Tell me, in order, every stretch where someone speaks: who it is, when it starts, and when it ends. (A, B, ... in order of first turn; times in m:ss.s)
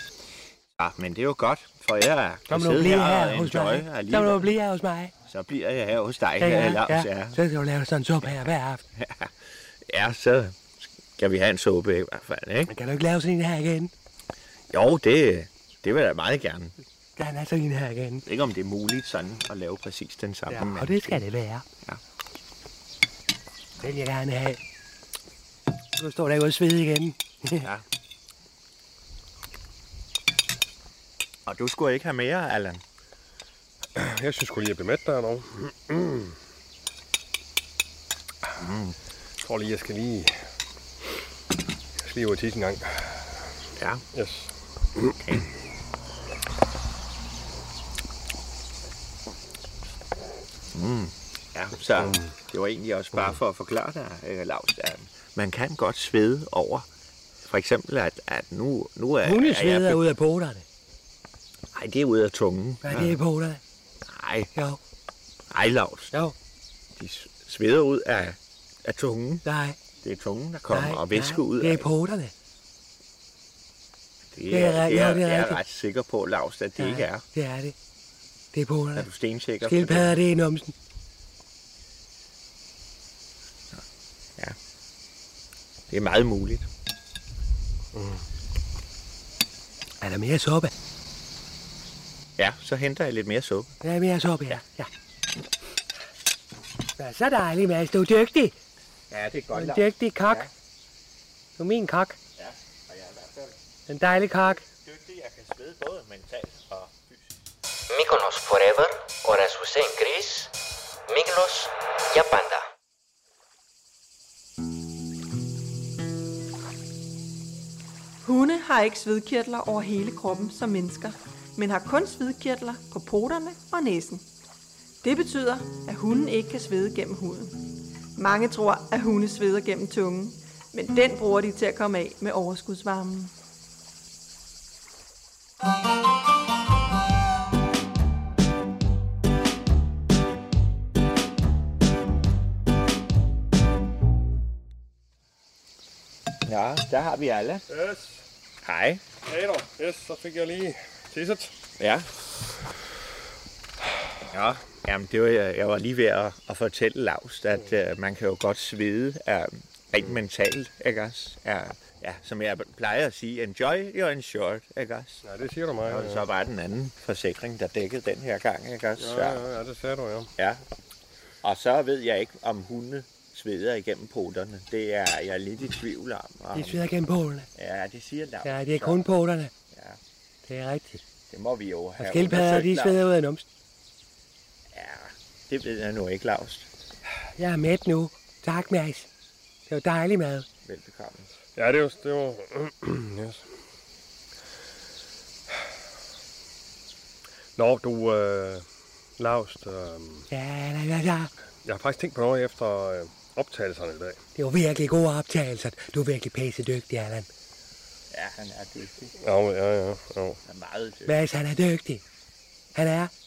0:00.8-0:04.5 A
0:02.5-0:05.1 B
0:05.2-0:07.4 A
0:06.4-0:08.8 B
0:09.0-0:09.3 A
0:09.9-0:12.7 A
0:12.7-0:13.9 B
0:14.7-0:16.8 A
0:17.2-0:18.2 B
0:18.2-0:21.2 A
0:20.5-0:21.6 B
0:23.8-0:24.6 B
0:26.0-0:27.7 B
0:31.4-0:32.8 A
0:34.0-0:36.3 C
0:38.6-0:39.0 A
0:39.4-0:40.3 C
0:42.0-0:43.3 C
0:43.8-0:44.0 A
0:44.1-0:45.2 C
0:45.2-0:45.4 A
0:50.7-0:56.9 A
0:57.4-1:00.1 A
0:59.2-1:00.6 B
1:01.7-1:03.2 A
1:02.8-1:03.6 B
1:04.0-1:04.5 A
1:05.5-1:06.1 A
1:07.0-1:09.4 A
1:09.4-1:09.8 B
1:10.0-1:11.9 A
1:10.7-1:12.3 B
1:14.3-1:17.2 A
1:14.5-1:15.6 B
1:16.8-1:17.7 B
1:18.5-1:19.1 B
1:18.9-1:20.2 A
1:19.6-1:20.7 B
1:25.9-1:26.7 A
1:27.9-1:28.2 C
1:30.0-1:30.7 B
1:32.4-1:33.7 A
1:33.8-1:34.9 B
1:37.0-1:38.5 B
1:39.1-1:40.5 A
1:39.5-1:40.5 B
1:41.6-1:42.2 B
1:42.4-1:47.4 A
1:43.9-1:44.6 B
1:47.9-1:50.5 D
1:51.1-1:52.6 D
1:58.2-2:04.2 E
2:05.0-2:07.6 E
2:08.2-2:13.3 E
2:26.4-2:27.6 A
2:27.7-2:28.2 C
2:28.6-2:29.0 A
2:29.2-2:31.5 C
2:31.8-2:32.1 A
2:34.3-2:45.2 A
2:45.2-2:46.2 C
2:45.8-2:49.4 A
2:49.0-2:50.3 C
2:50.4-2:50.6 A
2:51.4-2:56.8 A
2:56.5-2:57.5 B
2:57.6-2:59.1 A
2:58.4-2:59.5 B
2:59.7-3:00.0 A
3:00.4-3:01.0 B
3:01.3-3:03.0 A
3:02.0-3:03.4 B
3:04.7-3:06.7 A
3:07.4-3:09.1 B
3:09.7-3:10.5 B
3:10.6-3:11.3 A
3:11.6-3:13.5 C
3:17.6-3:18.6 C
3:19.2-3:20.3 C
3:20.3-3:21.3 B
3:21.6-3:24.2 C
3:24.4-3:27.3 B
3:28.1-3:29.1 A
3:29.2-3:30.4 C
3:30.4-3:31.2 A
3:31.1-3:32.0 B
3:32.7-3:33.1 B